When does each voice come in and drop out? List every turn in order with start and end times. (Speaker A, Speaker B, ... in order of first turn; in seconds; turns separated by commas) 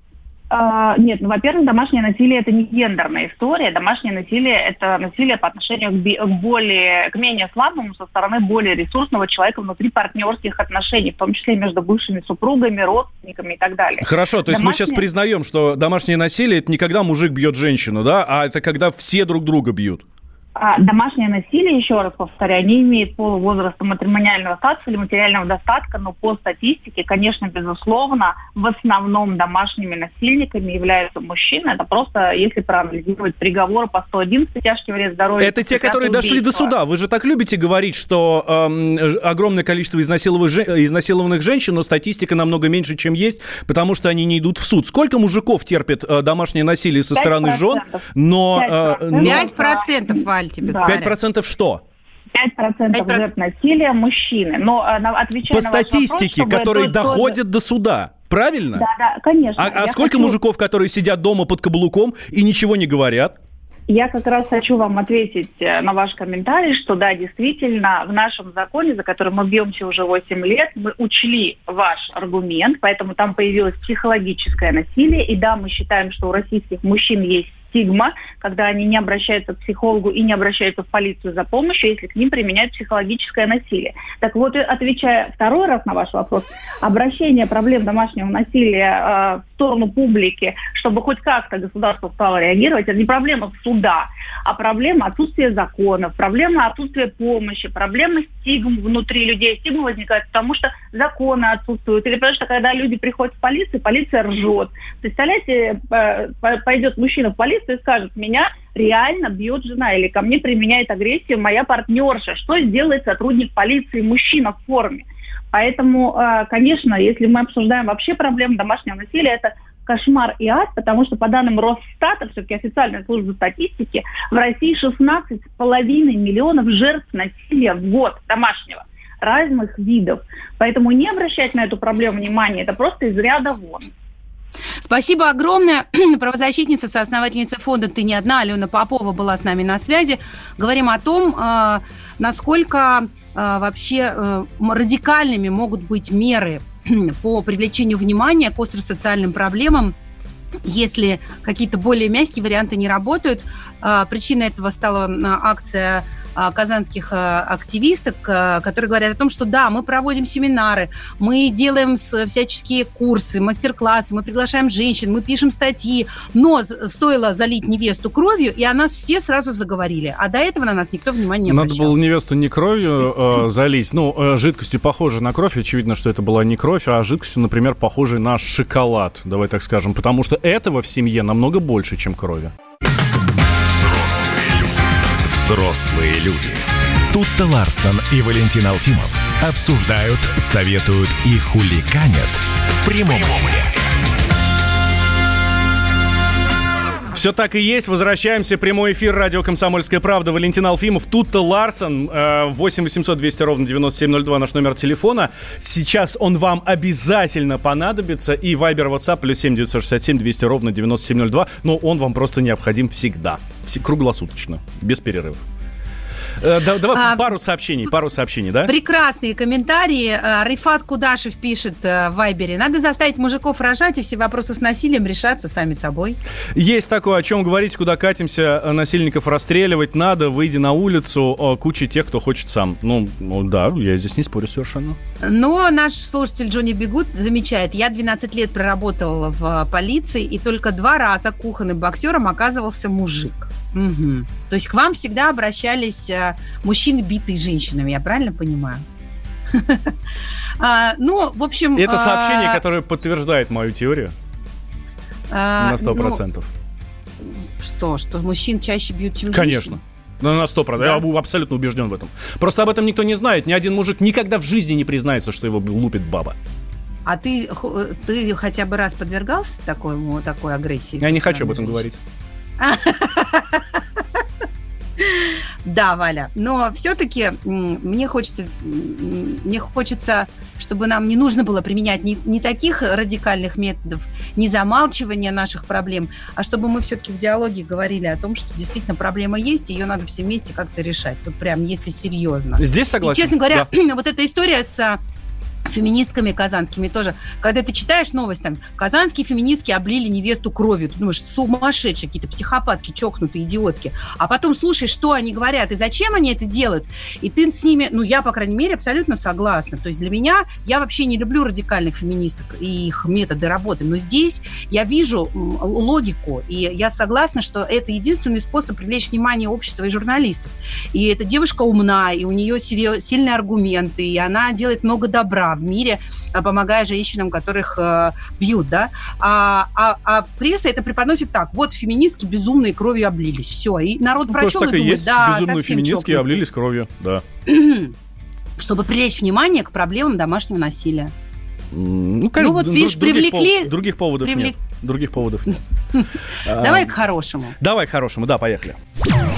Speaker A: 0.5-15.1, Speaker B: 14.0-20.0, Speaker A: 20.6-36.7, Speaker B: 35.4-49.5, Speaker A: 47.1-49.9, Speaker C: 49.2-51.2, Speaker A: 50.6-51.0, Speaker B: 50.8-51.8, Speaker A: 52.3-57.4, Speaker C: 52.9-53.3, Speaker B: 55.5-58.8, Speaker A: 58.7-60.4, Speaker B: 59.6-63.4, Speaker A: 63.9-133.9, Speaker C: 134.8-149.9, Speaker C: 150.6-171.9, Speaker B: 171.5-182.5, Speaker D: 183.7-184.8, Speaker D: 185.3-193.9, Speaker B: 197.1-215.4, Speaker B: 216.4-218.7, Speaker C: 216.9-217.3, Speaker C: 218.6-226.2, Speaker B: 226.5-235.0, Speaker C: 235.2-248.8, Speaker C: 249.5-249.9, Speaker C: 250.6-252.6, Speaker B: 251.8-254.1, Speaker C: 255.3-256.2, Speaker B: 255.6-256.5, Speaker C: 257.6-259.8, Speaker B: 259.3-266.3, Speaker C: 267.1-271.8, Speaker B: 271.0-272.0, Speaker C: 272.6-273.6, Speaker C: 275.0-295.0, Speaker B: 292.6-293.7, Speaker C: 295.7-336.4, Speaker B: 334.3-337.2, Speaker C: 337.4-337.9, Speaker C: 338.6-341.1, Speaker B: 341.7-345.6, Speaker C: 342.4-344.6, Speaker C: 345.5-347.6, Speaker B: 346.4-346.9, Speaker B: 347.6-348.8